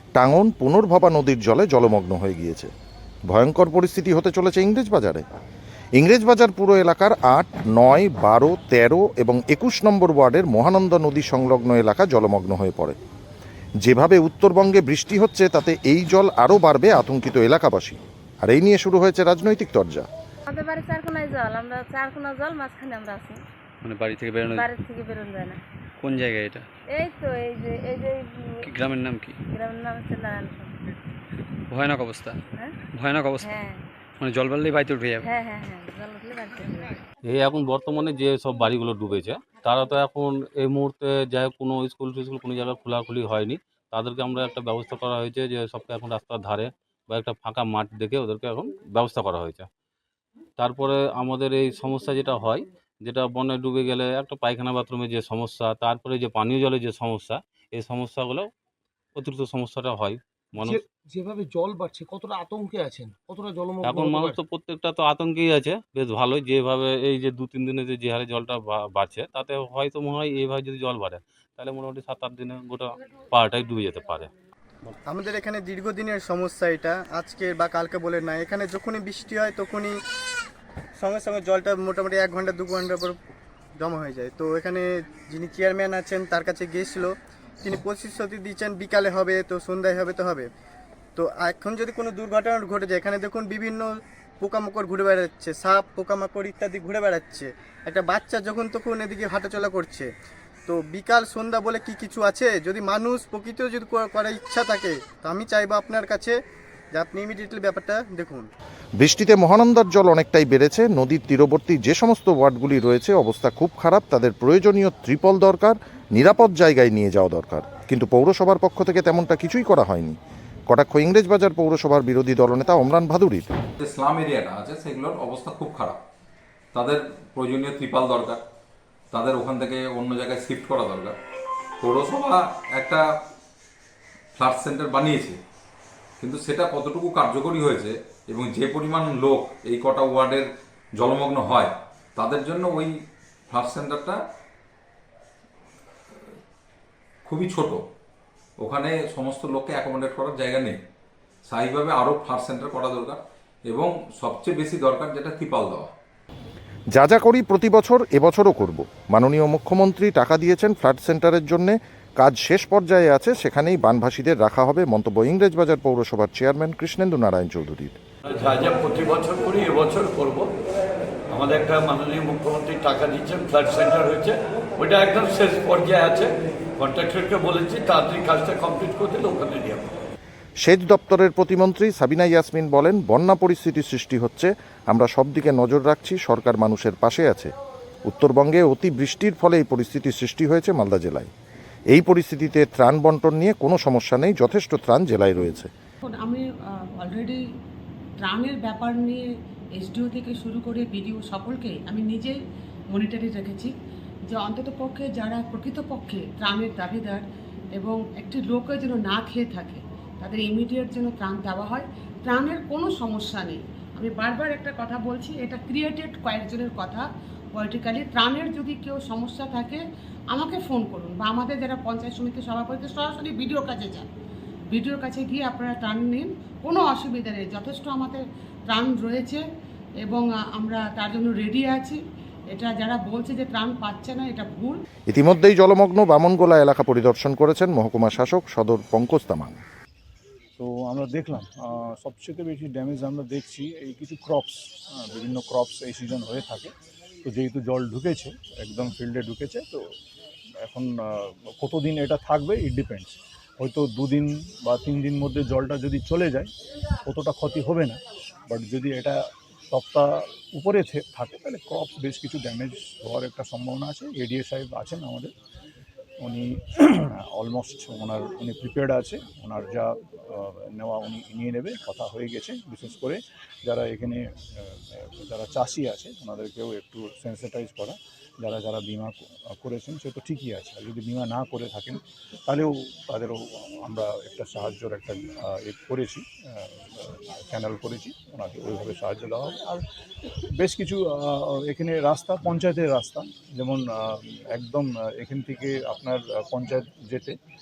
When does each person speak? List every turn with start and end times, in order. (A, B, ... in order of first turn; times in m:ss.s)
0:00.2-0:02.7 A
0:03.3-0:05.2 A
0:06.0-0:13.0 A
0:13.8-0:20.1 A
0:20.5-0:23.4 B
0:23.8-0:24.6 C
0:24.5-0:25.6 B
0:26.0-0:26.7 C
0:26.9-0:28.7 B
0:28.8-0:29.4 C
0:29.5-0:30.8 B
0:31.7-0:32.4 C
0:32.5-0:32.8 B
0:32.9-0:33.4 C
0:33.4-0:33.8 B
0:34.2-0:35.2 C
0:35.2-0:36.9 B
0:37.2-0:49.7 D
0:50.6-0:58.5 D
0:59.2-1:00.8 D
1:00.6-1:04.4 E
1:03.8-1:14.3 D
1:15.0-1:20.0 F
1:21.0-1:23.2 F
1:23.8-1:30.5 F
1:31.2-1:40.1 F
1:40.7-1:46.4 F
1:46.9-1:48.5 F
1:49.0-2:00.2 A
2:00.7-2:03.5 A
2:03.8-2:06.0 G
2:06.7-2:08.4 G
2:09.1-2:11.2 G
2:11.8-2:13.0 G
2:14.4-2:15.4 G
2:16.2-2:22.9 G
2:23.5-2:24.2 G
2:27.2-2:27.8 G
2:28.6-2:30.8 G
2:31.5-2:35.9 G
2:36.9-2:48.0 A
2:48.3-2:50.5 H
2:51.3-2:59.9 H
3:00.6-3:07.5 A
3:08.0-3:11.3 A
3:11.9-3:15.7 A
3:16.0-3:16.4 I
3:17.0-3:17.4 I
3:18.2-3:19.2 I
3:19.8-3:22.4 I
3:22.9-3:23.7 I
3:24.3-3:27.2 I
3:27.7-3:44.1 I
3:44.7-3:49.4 I
3:50.0-3:52.0 I
3:52.5-3:54.8 I
3:55.1-3:59.6 A
4:00.6-4:06.7 J
4:07.2-4:09.8 J
4:10.6-4:16.5 J
4:17.1-4:25.3 J
4:26.2-4:49.8 J
4:50.6-4:57.4 J